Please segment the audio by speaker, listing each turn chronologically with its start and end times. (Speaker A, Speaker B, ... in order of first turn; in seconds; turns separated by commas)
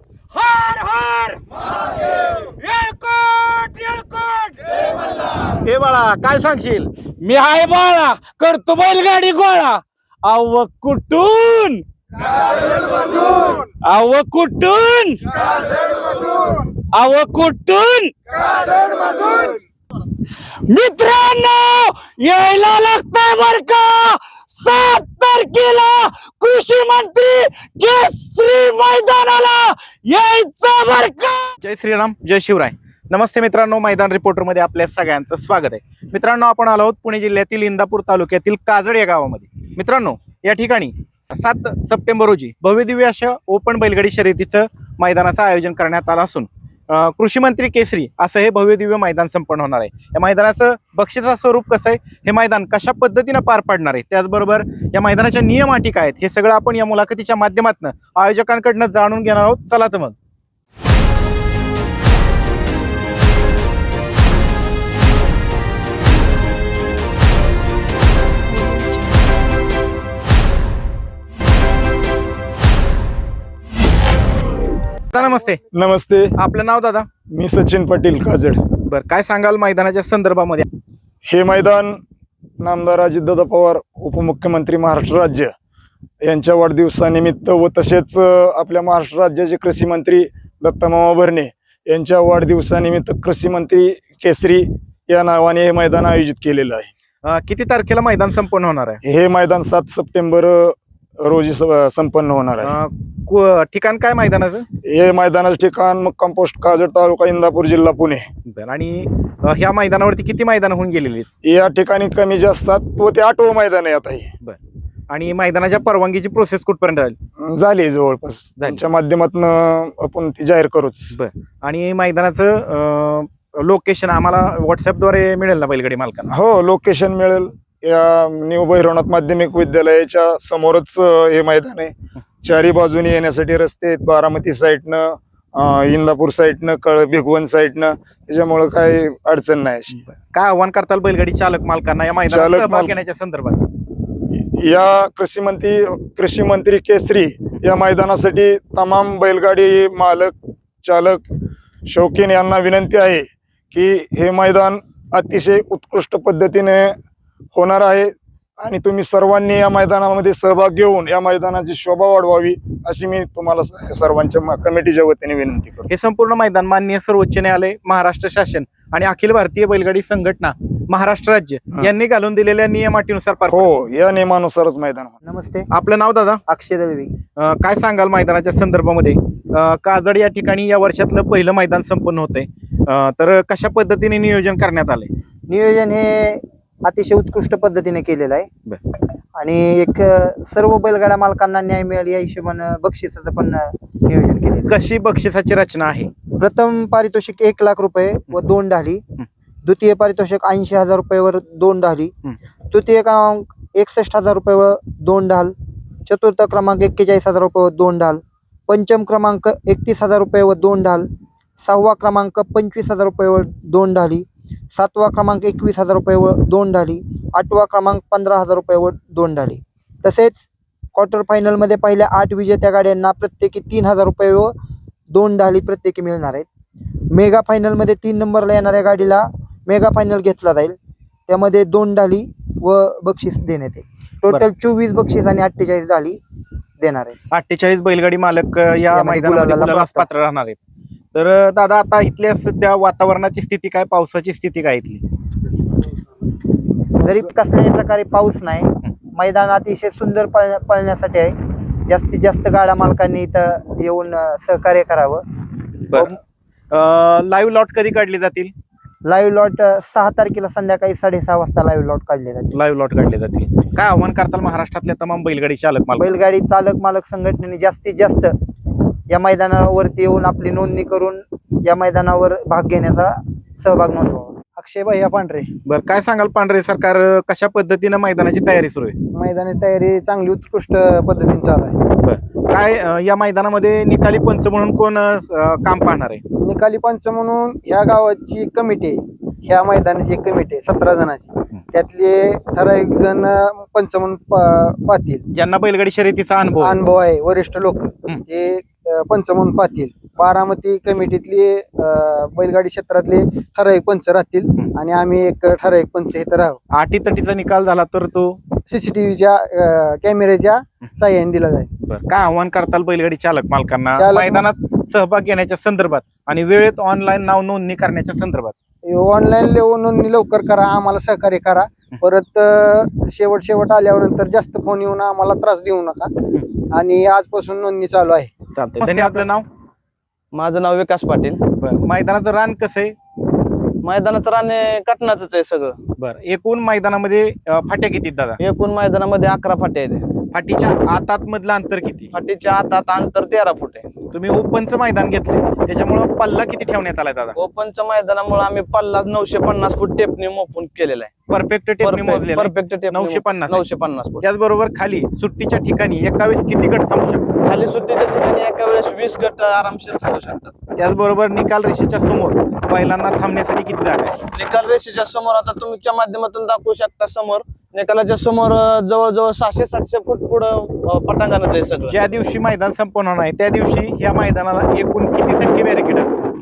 Speaker A: 0.3-5.0, Speaker B: 5.6-6.9, Speaker A: 7.2-11.8, Speaker A: 12.4-19.6, Speaker A: 20.6-31.5, Speaker B: 31.6-60.1, Speaker B: 75.1-75.6, Speaker C: 75.7-76.3, Speaker B: 76.4-77.1, Speaker C: 77.3-78.6, Speaker B: 78.8-80.7, Speaker C: 81.3-82.0, Speaker C: 82.6-85.5, Speaker C: 86.2-96.9, Speaker B: 97.2-99.0, Speaker C: 99.0-102.7, Speaker B: 102.6-104.7, Speaker C: 104.8-108.3, Speaker B: 108.5-111.3, Speaker C: 111.4-114.3, Speaker B: 115.1-117.2, Speaker C: 117.4-121.1, Speaker B: 121.1-126.3, Speaker C: 126.3-140.0, Speaker B: 140.3-143.6, Speaker C: 142.3-143.0, Speaker C: 144.4-151.2, Speaker C: 151.9-157.0, Speaker C: 157.5-165.9, Speaker B: 165.9-173.7, Speaker C: 173.5-175.2, Speaker D: 175.2-175.7, Speaker B: 175.7-176.4, Speaker D: 176.5-177.1, Speaker B: 177.4-185.1, Speaker D: 185.5-188.5, Speaker D: 189.4-194.8, Speaker B: 194.7-196.1, Speaker D: 196.4-199.0, Speaker D: 199.6-202.1, Speaker D: 202.7-205.5, Speaker D: 206.1-224.5, Speaker D: 225.1-226.5, Speaker D: 227.1-230.8, Speaker D: 231.3-236.2, Speaker D: 236.8-237.2, Speaker B: 237.3-240.6, Speaker D: 238.9-240.1, Speaker B: 241.2-245.0, Speaker D: 247.0-251.3, Speaker D: 251.9-255.2, Speaker B: 256.7-258.5, Speaker D: 259.1-262.5, Speaker B: 262.5-266.1, Speaker D: 266.0-268.3, Speaker D: 269.1-274.4, Speaker E: 274.5-275.5, Speaker B: 275.7-279.0, Speaker E: 279.1-281.8, Speaker B: 282.0-286.2, Speaker E: 286.4-295.2, Speaker B: 295.3-296.8, Speaker E: 296.6-306.6, Speaker B: 306.8-308.4, Speaker E: 308.7-311.7, Speaker B: 311.9-318.5, Speaker E: 313.9-314.5, Speaker E: 318.9-326.1, Speaker E: 326.7-328.3, Speaker B: 328.6-329.4, Speaker F: 330.4-331.4, Speaker B: 331.6-332.9, Speaker F: 333.9-335.7, Speaker B: 336.0-338.4, Speaker F: 338.4-340.0, Speaker B: 340.3-342.1, Speaker F: 342.1-343.8, Speaker B: 344.1-347.4, Speaker F: 347.4-351.1, Speaker B: 351.3-353.6, Speaker F: 351.8-354.2, Speaker B: 354.2-357.4, Speaker F: 357.4-360.5, Speaker B: 360.8-364.2, Speaker F: 364.3-371.9, Speaker B: 371.9-376.2